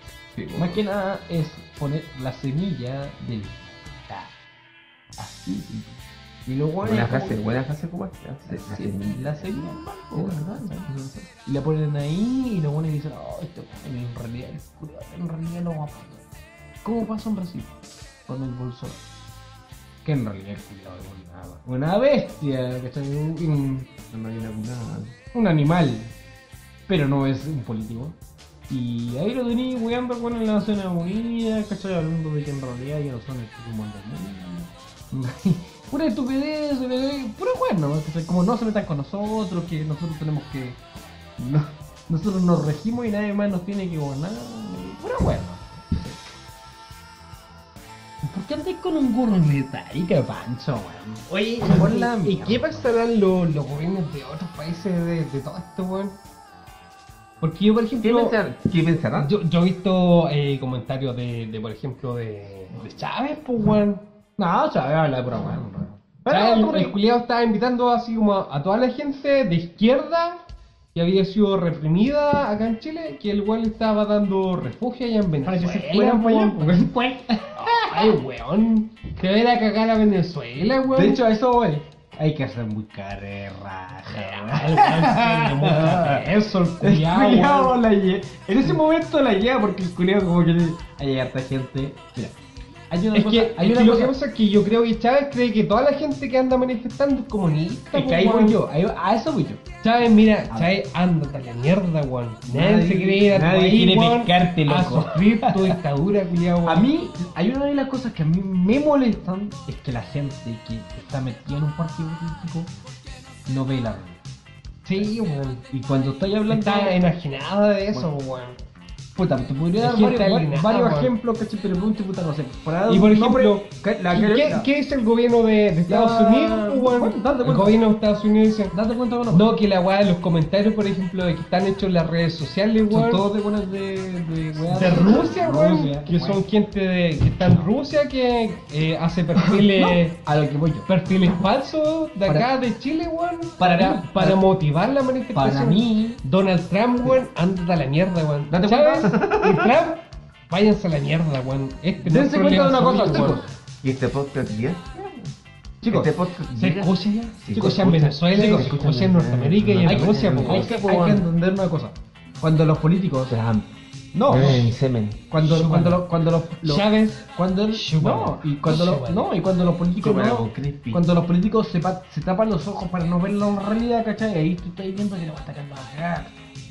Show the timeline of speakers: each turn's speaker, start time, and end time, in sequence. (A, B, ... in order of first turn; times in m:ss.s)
0:00.4-0:00.8 A
0:00.6-0:04.3 B
0:05.2-0:07.4 B
0:06.8-0:11.3 A
0:08.5-0:16.2 B
0:16.8-0:17.7 B
0:18.3-0:19.0 B
0:20.0-0:24.1 B
0:24.1-0:25.1 A
0:25.3-0:26.1 B
0:26.9-0:28.2 B
0:28.7-0:40.8 B
0:41.4-0:46.2 B
0:48.2-0:52.9 B
0:51.3-0:56.2 C
0:57.4-0:58.4 C
0:58.0-0:59.3 A
0:59.2-1:04.0 C
1:04.4-1:07.0 B
1:06.3-1:10.4 C
1:11.0-1:16.9 C
1:15.4-1:18.2 B
1:17.6-1:21.2 C
1:21.0-1:32.3 B
1:24.1-1:27.8 C
1:32.9-1:34.2 B
1:33.1-1:38.6 C
1:37.9-1:39.6 B
1:39.8-1:46.9 C
1:42.4-1:45.8 B
1:46.6-1:52.7 B
1:53.5-1:54.2 B
1:54.8-1:55.6 C
1:55.7-1:57.0 B
1:56.5-1:58.6 C
1:59.2-2:04.7 B
1:59.8-2:01.1 C
2:02.9-2:08.8 C
2:05.9-2:07.8 B
2:08.7-2:09.5 B
2:09.3-2:13.2 C
2:12.9-2:16.4 B
2:14.7-2:20.2 C
2:19.4-2:20.9 B
2:20.9-2:33.4 C
2:23.6-2:24.4 B
2:25.4-2:26.2 B
2:28.5-2:29.2 B
2:29.1-2:29.7 A
2:32.0-2:33.5 B
2:33.8-2:35.3 A
2:35.8-2:36.1 B
2:35.9-2:41.3 A
2:36.5-2:40.8 C
2:37.5-2:38.7 B
2:39.8-2:43.4 B
2:43.3-2:43.7 A
2:44.1-2:44.7 B
2:44.3-2:45.2 A
2:44.3-2:44.6 C
2:45.3-2:56.4 B
2:45.4-2:46.1 C
2:46.6-2:49.3 C
2:50.0-2:51.0 A